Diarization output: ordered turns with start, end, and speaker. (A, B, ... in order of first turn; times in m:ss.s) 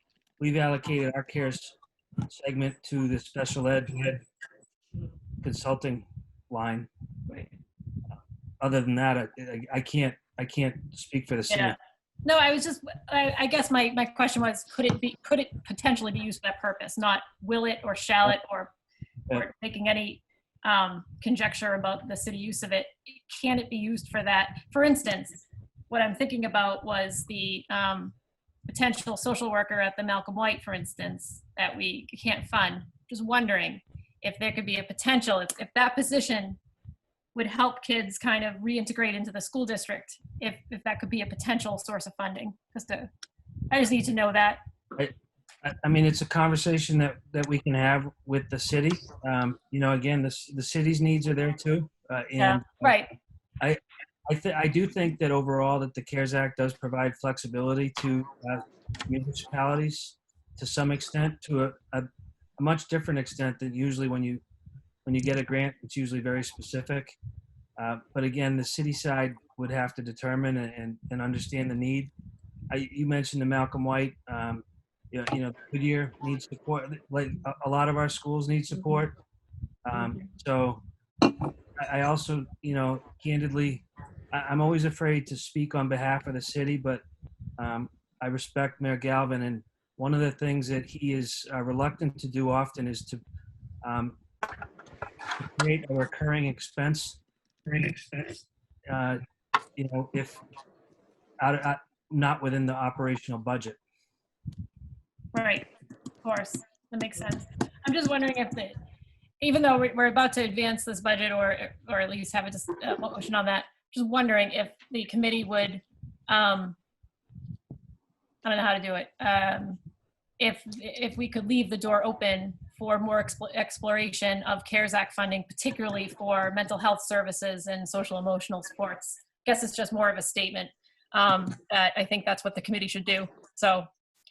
0:00.4-0:01.8 A
0:02.3-0:04.2 A
0:05.4-0:06.9 A
0:08.6-0:11.8 A
0:11.5-0:18.7 B
0:19.3-0:28.1 B
0:28.7-0:36.6 B
0:37.4-0:43.1 B
0:43.7-0:44.6 B
0:45.0-0:53.0 A
0:52.4-0:53.1 B
0:53.6-1:04.4 A
1:05.1-1:07.2 A
1:07.8-1:12.1 A
1:12.7-1:19.2 A
1:19.8-1:20.8 A
1:21.8-1:27.0 A
1:27.6-1:33.2 A
1:33.8-1:34.2 A
1:35.4-1:39.2 A
1:39.8-1:40.4 A
1:41.4-1:43.8 A
1:45.3-1:45.7 B
1:46.2-1:48.7 B
1:49.4-1:56.8 B
1:58.4-1:59.8 B
2:00.4-2:13.9 B